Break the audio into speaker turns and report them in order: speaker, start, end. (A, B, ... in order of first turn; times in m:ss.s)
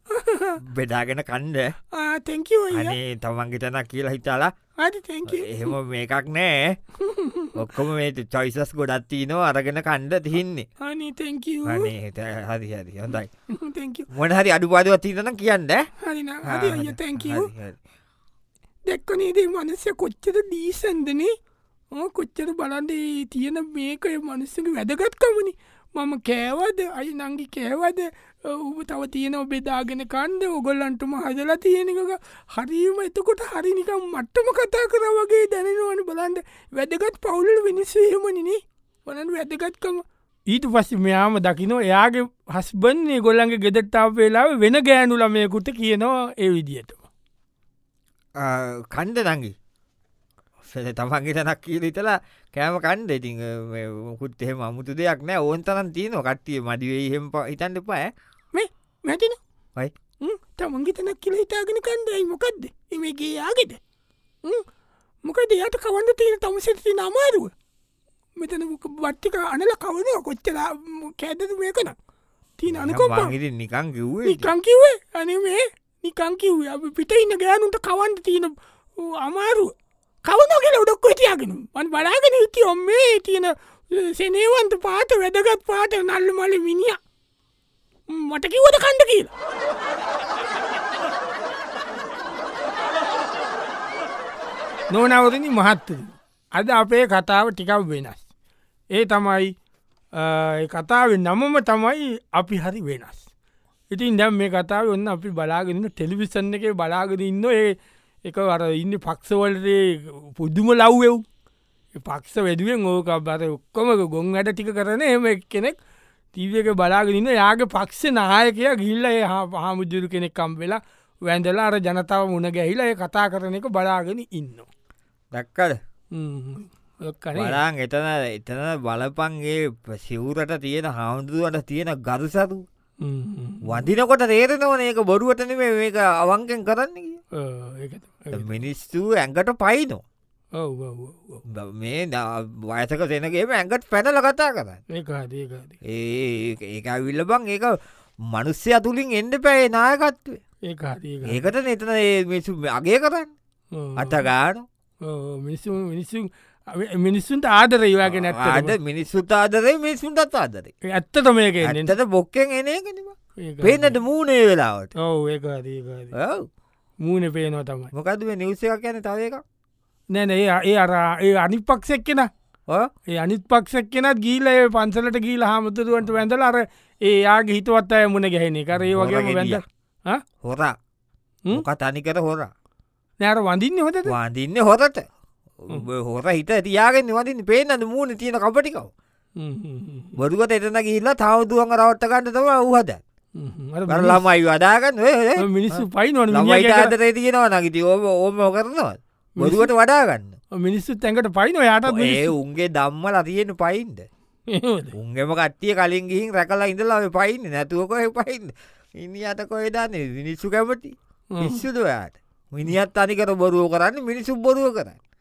0:00.1-0:00.6 A
0:00.6-0:01.8 B
0:01.9-0:03.0 A
0:02.7-0:04.5 B
0:04.8-0:05.7 A
0:05.2-0:06.8 B
0:07.0-0:07.5 A
0:07.5-0:10.7 B
0:10.8-0:11.9 A
0:11.6-0:13.3 B
0:13.5-0:14.1 A
0:14.1-0:15.9 B
0:16.0-0:17.5 A
0:16.4-0:17.8 B
0:18.9-0:21.3 A
0:21.9-0:47.0 A
0:48.4-0:49.5 B
0:50.6-0:58.1 B
0:58.5-0:59.4 A
1:00.2-1:03.8 A
1:05.2-1:07.5 A
1:08.4-1:12.0 A
1:12.6-1:13.3 A
1:12.7-1:14.5 B
1:14.2-1:19.7 A
1:20.2-1:27.0 A
1:28.1-1:29.3 A
1:34.9-1:38.2 A
1:38.9-1:39.5 A
1:40.1-1:43.3 A
1:43.9-1:51.2 A
1:52.0-1:55.8 A
1:56.3-2:04.7 A
2:05.3-2:05.8 B
2:06.1-2:07.6 A
2:07.4-2:12.6 B
2:13.0-2:13.9 A
2:13.6-2:17.2 B
2:17.4-2:18.6 A
2:18.3-2:20.0 B
2:20.6-2:21.4 A
2:21.5-2:24.8 B
2:24.9-2:25.8 A
2:25.9-2:27.8 B
2:28.3-2:30.4 B
2:30.7-2:31.5 A
2:31.2-2:33.3 B
2:33.7-2:34.3 A
2:34.0-2:34.7 B
2:35.0-2:38.8 A
2:38.1-2:40.7 B
2:40.9-2:41.9 A
2:41.6-2:44.9 B
2:43.4-2:43.9 A
2:45.0-2:46.1 A
2:46.1-2:46.5 B
2:47.0-2:47.9 A
2:47.9-2:49.4 B
2:50.1-2:52.3 A
2:53.1-3:00.2 A
2:58.8-2:59.6 B
3:00.4-3:00.7 B
3:01.5-3:02.5 B
3:03.2-3:04.1 A
3:04.1-3:05.0 B
3:05.6-3:08.9 B
3:09.4-3:10.1 A
3:10.2-3:13.0 B
3:13.4-3:14.2 A
3:13.9-3:20.4 B
3:15.4-3:16.9 A
3:19.4-3:19.7 A
3:20.6-3:22.3 A
3:21.9-3:24.0 B
3:24.5-3:24.9 A
3:24.9-3:35.0 B
3:31.3-3:31.6 A